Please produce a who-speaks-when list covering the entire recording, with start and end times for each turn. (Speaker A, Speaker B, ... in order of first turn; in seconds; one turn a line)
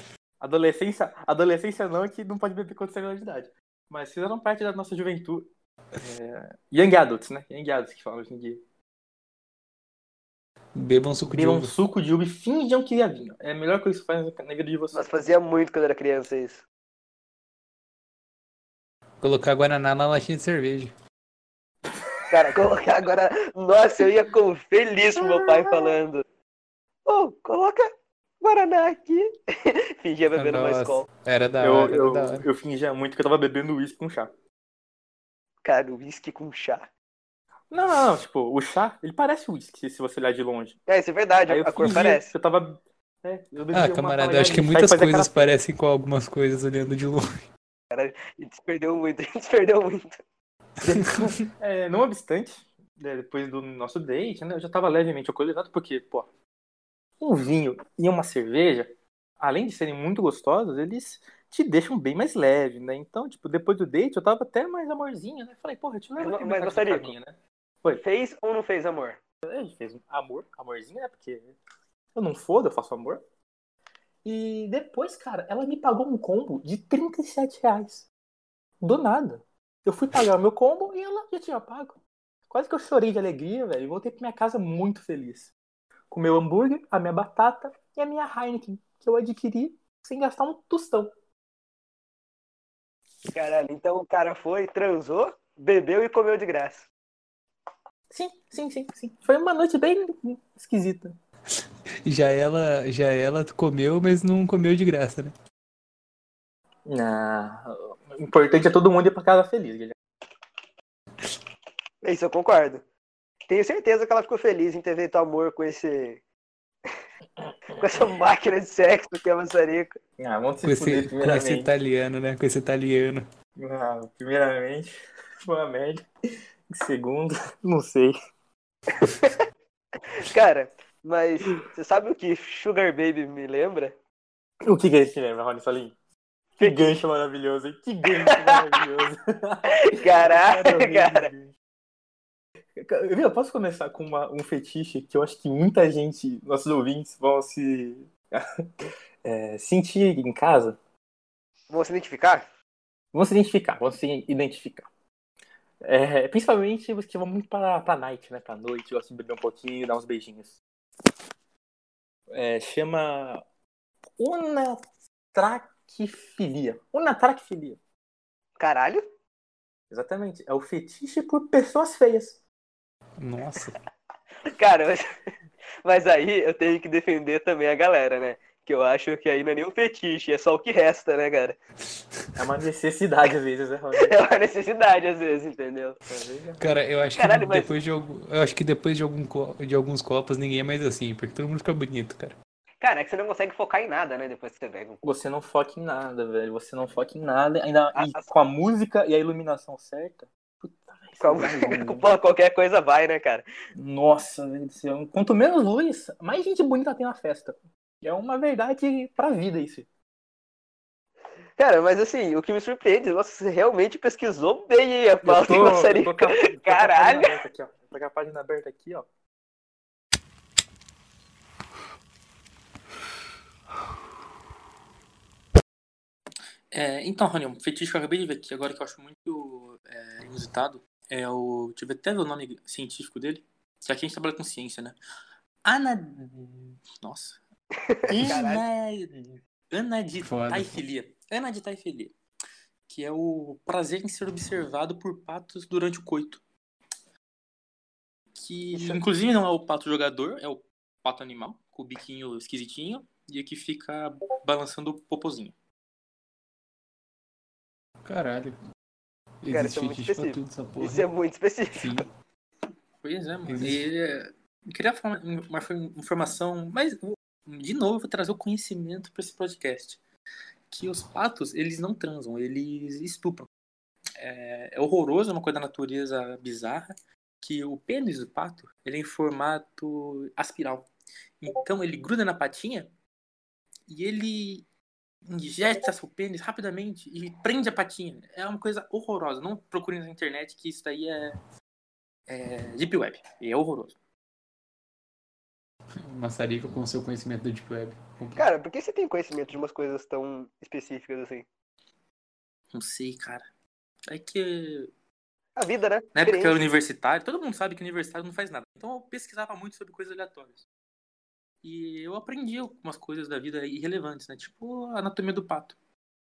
Speaker A: 0.4-8.6
Speaker B: 10.8-11.8
Speaker A: 11.3-15.0
Speaker C: 14.9-16.6
Speaker B: 19.2-20.9
Speaker C: 22.3-26.2
Speaker A: 25.2-25.9
Speaker C: 27.1-27.9
Speaker C: 28.4-31.1
Speaker B: 30.4-32.5
Speaker A: 31.6-34.3
Speaker C: 35.6-36.9
Speaker A: 37.7-40.8
Speaker C: 40.9-42.3
Speaker A: 41.5-45.5
Speaker B: 43.7-47.5
Speaker C: 47.9-50.2
Speaker C: 50.8-51.3
Speaker B: 51.0-51.4
Speaker A: 51.5-56.3
Speaker A: 57.2-68.0
Speaker C: 66.2-67.2
Speaker C: 68.0-69.2
Speaker A: 69.4-71.6
Speaker A: 72.2-73.2
Speaker A: 74.2-78.1
Speaker A: 78.8-85.5
Speaker A: 86.1-91.1
Speaker C: 93.3-96.9
Speaker A: 98.1-101.2
Speaker B: 102.0-105.3
Speaker A: 106.9-110.0
Speaker C: 112.0-112.8
Speaker C: 113.5-116.2
Speaker C: 117.8-120.0
Speaker A: 120.2-121.7
Speaker B: 120.7-123.3
Speaker A: 123.6-126.0
Speaker A: 126.7-128.2
Speaker C: 129.0-129.3
Speaker C: 130.1-133.9
Speaker A: 134.6-136.0
Speaker A: 136.6-141.5
Speaker C: 136.6-137.0
Speaker C: 138.2-138.6
Speaker C: 139.7-141.3
Speaker A: 142.8-150.8
Speaker C: 151.7-152.4
Speaker A: 153.1-154.9
Speaker A: 155.8-160.6
Speaker A: 162.3-163.4
Speaker A: 164.2-167.8
Speaker C: 168.6-169.1
Speaker A: 169.9-172.4
Speaker B: 173.2-173.8
Speaker C: 174.6-175.1
Speaker C: 175.8-181.6
Speaker B: 182.0-182.3
Speaker A: 182.4-184.2
Speaker C: 184.0-186.0
Speaker A: 186.1-186.6
Speaker B: 186.6-192.3
Speaker C: 187.2-187.7
Speaker C: 192.8-195.0
Speaker A: 195.0-202.2
Speaker C: 197.9-198.3
Speaker C: 201.2-203.4
Speaker A: 203.8-209.9
Speaker C: 211.6-217.4
Speaker A: 215.2-219.1
Speaker A: 226.7-235.0
Speaker A: 235.6-237.4
Speaker C: 237.9-238.6
Speaker A: 238.1-242.1
Speaker B: 240.2-240.8
Speaker A: 242.9-246.4
Speaker A: 248.4-255.5
Speaker C: 248.7-249.0
Speaker B: 258.1-258.6
Speaker B: 259.4-261.1
Speaker C: 259.5-262.1
Speaker B: 261.8-262.1
Speaker A: 263.0-270.0
Speaker B: 263.5-263.9
Speaker A: 270.7-273.5
Speaker A: 274.2-280.9
Speaker A: 281.4-282.9
Speaker A: 283.9-284.7
Speaker A: 285.3-291.4
Speaker A: 292.3-294.0
Speaker B: 296.0-298.5
Speaker C: 298.4-301.5
Speaker A: 302.7-303.5
Speaker A: 304.1-304.9
Speaker C: 305.6-306.6
Speaker A: 306.1-310.6
Speaker A: 311.6-315.8